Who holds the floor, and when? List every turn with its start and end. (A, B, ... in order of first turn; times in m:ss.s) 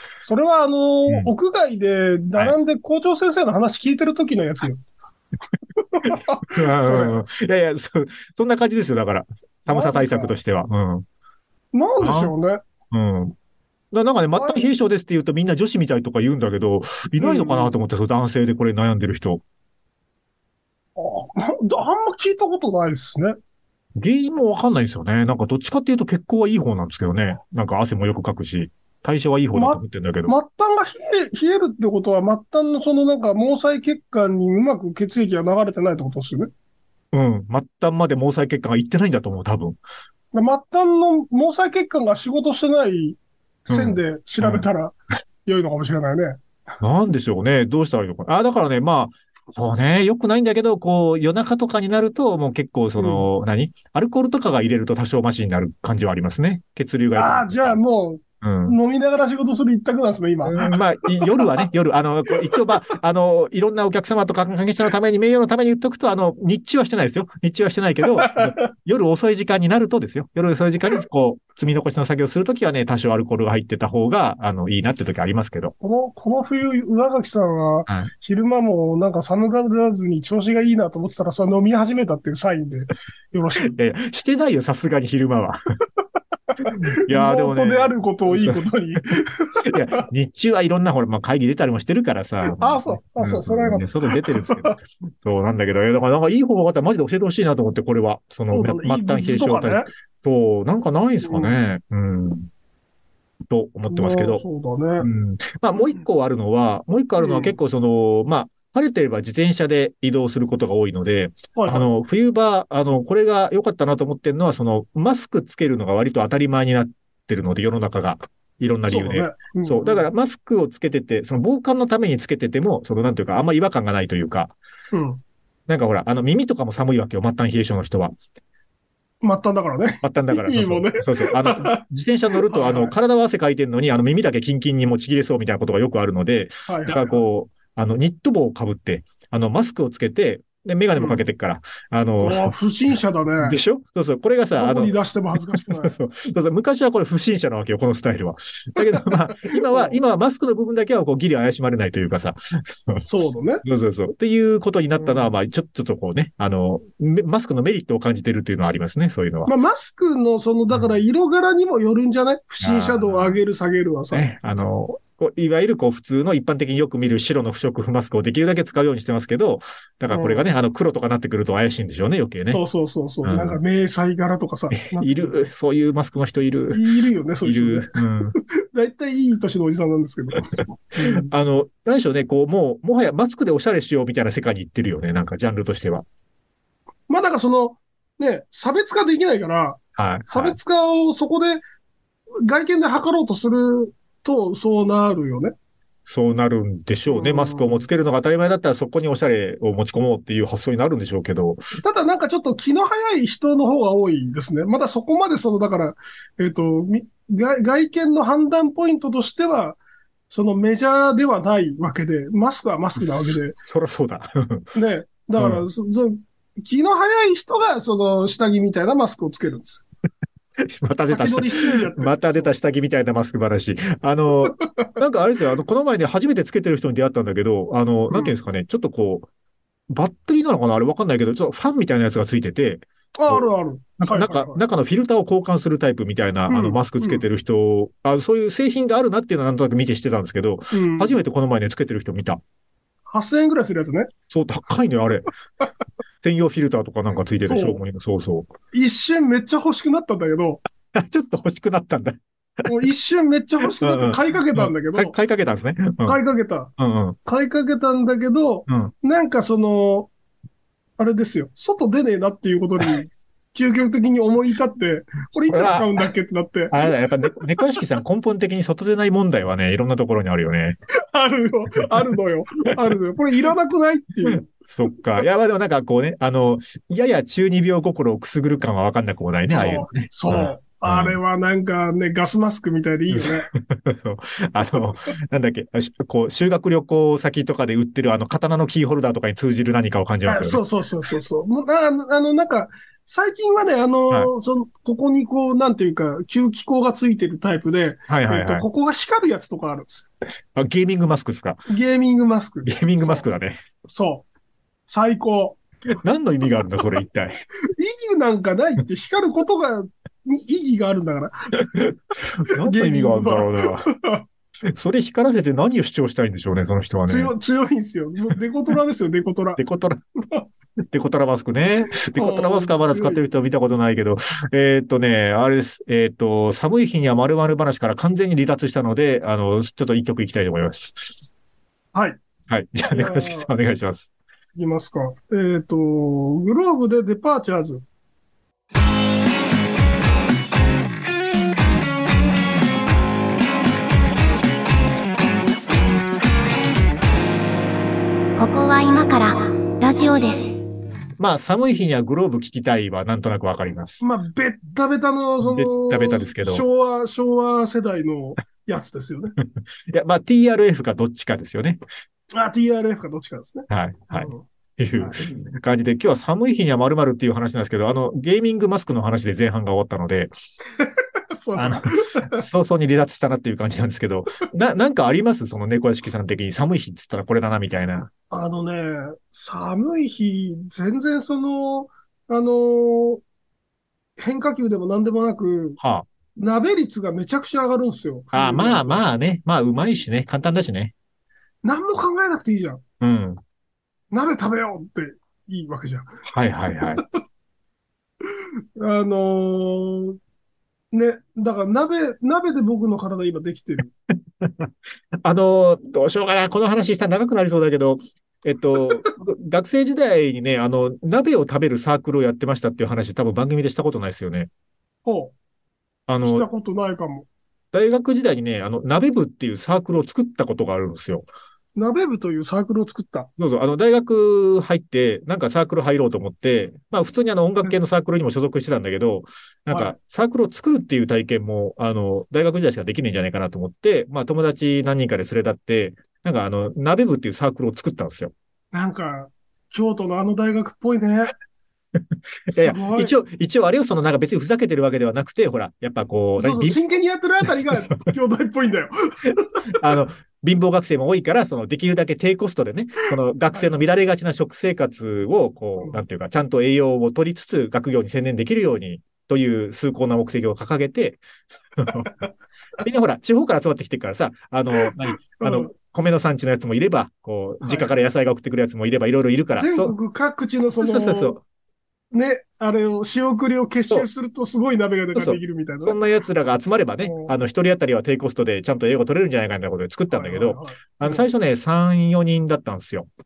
0:00.2-0:04.8 A
0:05.8-0:07.2 A
0:06.0-0:11.0 B
0:09.7-0:10.4 A
0:11.7-0:12.6 A
0:12.0-0:12.3 B
0:12.9-0:13.4 B
0:13.9-0:19.4 B
0:14.4-0:14.6 A
0:17.2-0:17.8 A
0:21.0-0:23.4 A
0:24.0-0:30.4 B
0:29.5-0:36.5 A
0:37.1-0:39.8 B
0:40.3-0:45.0 A
0:43.7-0:44.6 B
0:45.5-0:46.4 A
0:46.8-0:57.8 B
0:53.0-0:53.2 A
0:57.1-1:01.6 A
0:58.4-0:58.8 B
1:00.4-1:15.7 B
1:08.2-1:08.7 A
1:15.8-1:23.7 A
1:23.7-1:25.6 B
1:26.6-1:30.0 A
1:26.6-1:28.6 B
1:29.6-1:42.5 B
1:32.4-1:34.8 A
1:38.5-1:39.9 A
1:41.2-1:41.5 A
1:43.5-1:44.4 B
1:43.9-1:45.1 A
1:45.0-2:04.5 B
1:47.2-1:47.6 A
1:51.5-1:51.9 A
1:58.9-2:00.0 A
2:04.9-2:05.2 A
2:05.7-2:08.2 B
2:09.2-2:11.8 A
2:10.0-2:22.5 B
2:12.4-2:12.9 A
2:16.7-2:17.2 A
2:21.0-2:21.2 A
2:22.2-2:23.6 A
2:23.4-2:25.0 B
2:24.6-2:26.0 A
2:25.5-2:33.0 B
2:28.9-2:30.0 A
2:33.0-2:33.6 A
2:33.6-2:39.5 B
2:35.0-2:35.3 A
2:39.5-2:44.3 A
2:42.6-2:43.4 B
2:44.1-2:52.6 B
2:50.1-2:50.4 A
2:52.5-2:55.3 A
2:53.2-2:53.6 B
2:54.7-2:56.8 B
2:56.7-3:01.3 A
2:57.4-2:58.4 B
3:01.0-3:06.0 B
3:07.1-3:11.6 A
3:10.0-3:10.6 B
3:12.4-3:15.5 A
3:16.1-3:21.6 B
3:17.1-3:17.9 A
3:21.8-3:29.8 A
3:30.3-3:33.6 A
3:33.0-3:34.7 B
3:34.8-3:39.8 A
3:35.4-3:35.6 B
3:40.6-3:49.3 B
3:41.1-3:42.5 A
3:44.6-3:44.9 A
3:49.9-3:53.5 B
3:53.2-3:54.6 A
3:54.0-4:02.4 B
3:56.5-3:57.2 A
4:00.7-4:01.2 A
4:03.1-4:04.1 A
4:04.3-4:05.3 B
4:06.2-4:08.5 B
4:07.4-4:07.8 A
4:08.7-4:10.6 A
4:10.9-4:12.2 B
4:12.6-4:15.1 A
4:13.8-4:16.2 B
4:16.0-4:16.7 A
4:16.8-4:17.2 B
4:17.2-4:20.1 A
4:18.7-4:18.9 B
4:21.0-4:27.8 A
4:25.3-4:25.9 B
4:26.7-4:30.8 B
4:31.1-4:34.5 A
4:34.3-4:41.2 B
4:39.5-4:43.5 A
4:43.1-4:50.6 B
4:50.2-5:00.1 A
4:58.1-4:58.7 B
5:00.5-5:01.7 B
5:01.7-5:03.2 A
5:02.7-5:03.6 B
5:03.9-5:04.2 A
5:04.9-5:05.6 A
5:06.0-5:07.3 B
5:07.7-5:11.6 A
5:11.7-5:13.9 B
5:12.5-5:14.2 A
5:14.7-5:17.3 B
5:17.1-5:19.6 A
5:19.6-5:20.0 B
5:20.9-5:31.1 B
5:22.0-5:23.2 A
5:31.9-5:32.2 A
5:32.5-5:34.1 B
5:32.9-5:33.5 A
5:34.6-5:37.8 A
5:48.4-5:50.6 C
5:51.2-5:54.0 B
5:54.0-5:59.3 A
5:55.4-5:56.6 B
5:59.9-6:01.8 B
6:02.3-6:04.5 A
6:03.7-6:10.3 B
6:10.8-6:12.4 A
6:11.6-6:18.1 B
6:18.3-6:23.2 A
6:24.2-6:25.8 A
6:25.8-6:26.1 B
6:26.4-6:29.0 A
6:28.3-6:30.9 B
6:31.6-6:32.8 A
6:33.0-6:33.4 B
6:34.1-6:36.1 A
6:36.2-6:37.0 B
6:38.3-6:40.2 A
6:40.9-6:43.9 A
6:44.4-6:44.7 B
6:45.2-6:54.5 B
6:55.0-6:55.3 A
6:56.1-6:56.5 B
6:56.2-6:57.3 A
6:57.7-7:01.3 B
7:01.8-7:03.3 A
7:03.4-7:18.3 B
7:09.7-7:10.0 A
7:18.7-7:21.3 A
7:22.5-7:26.8 B
7:22.5-7:23.1 A
7:26.4-7:29.8 A
7:27.6-7:28.0 B
7:29.7-7:41.2 B
7:33.5-7:33.8 A
7:41.8-7:42.1 B
7:42.8-7:50.0 B
7:44.8-7:45.7 A
7:47.6-7:47.9 A
7:49.5-7:51.4 A
7:50.8-7:51.4 B
7:52.1-7:56.0 A
7:55.2-8:03.1 B
7:57.0-7:57.3 A
8:00.1-8:01.3 A